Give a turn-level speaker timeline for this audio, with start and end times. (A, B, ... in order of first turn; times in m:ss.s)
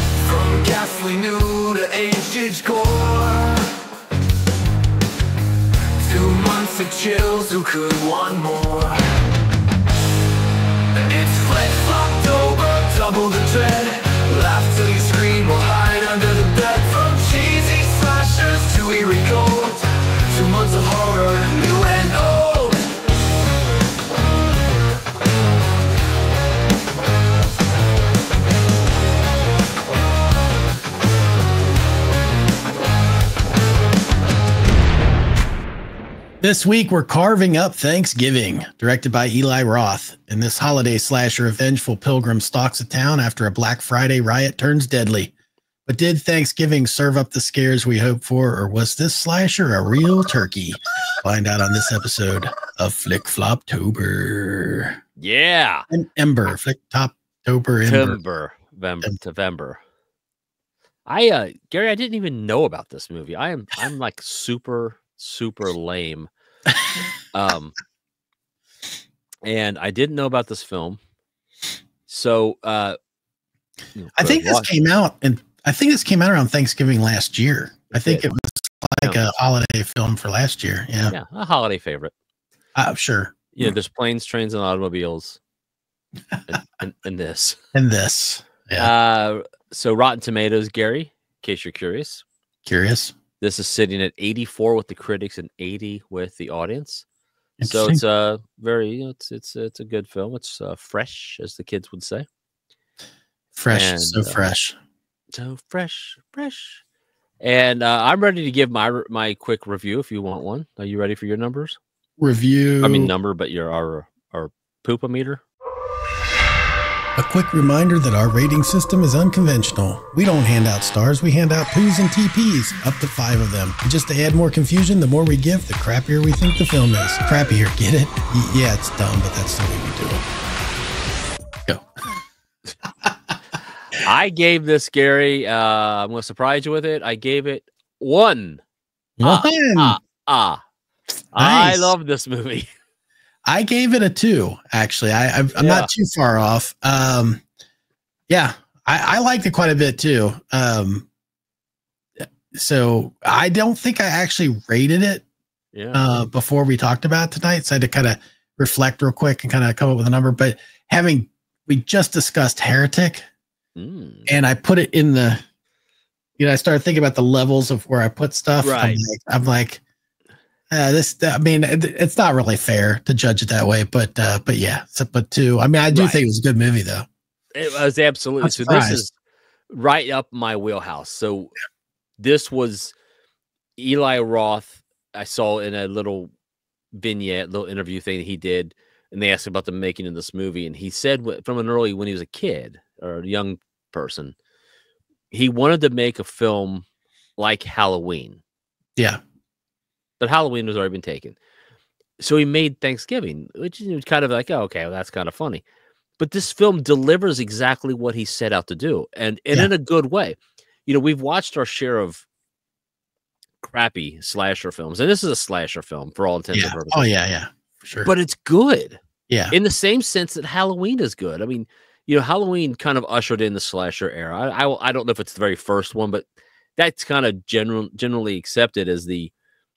0:00.2-0:03.8 A
0:06.0-0:09.1 A
0:11.0-0:22.9 A
0:36.4-0:45.3 B
0:45.9-0:55.0 B
0:55.2-0:55.8 C
0:55.9-0:58.2 B
0:57.8-0:59.8 C
1:01.0-1:06.3 C
1:07.3-1:07.7 C
1:09.4-1:11.0 C
1:12.1-1:12.9 C
1:14.0-1:14.7 C
1:14.2-1:21.2 B
1:17.9-1:18.3 C
1:19.0-1:19.3 C
1:21.1-1:22.1 C
1:22.7-1:23.7 B
1:23.5-1:25.4 C
1:26.5-1:27.6 C
1:27.7-1:28.9 B
1:28.8-1:32.2 C
1:32.6-1:33.1 B
1:33.4-1:37.0 C
1:37.6-1:38.0 B
1:37.6-1:42.2 C
1:43.6-1:44.7 B
1:43.7-1:44.4 C
1:45.3-1:46.8 C
1:47.4-1:51.8 C
1:52.2-1:53.1 B
1:52.8-1:55.4 C
1:57.2-2:10.2 B
2:14.0-2:18.6 C
2:19.2-2:20.0 B
2:19.2-2:20.6 C
2:21.3-2:22.7 C
2:21.4-2:21.9 B
2:23.4-2:27.4 B
2:25.6-2:25.9 C
2:28.3-2:31.1 B
2:32.5-2:35.2 B
2:35.7-2:36.0 C
2:35.9-2:43.2 B
2:43.8-2:44.3 C
2:44.3-2:45.4 B
2:46.4-2:49.8 B
2:48.6-2:49.0 C
2:50.7-2:57.0 B
2:55.9-2:56.2 C
2:57.5-2:59.1 C
2:58.4-2:59.0 B
2:59.7-3:01.5 C
3:02.2-3:02.9 C
3:03.8-3:06.3 C
3:06.9-3:14.3 C
3:15.3-3:16.8 C
3:17.4-3:18.4 C
3:20.2-3:21.4 C
3:22.2-3:25.6 C
3:26.2-3:32.2 C
3:33.6-3:37.1 C
3:36.5-3:38.1 B
3:38.0-3:39.0 C
3:39.3-3:39.6 B
3:39.5-3:49.3 C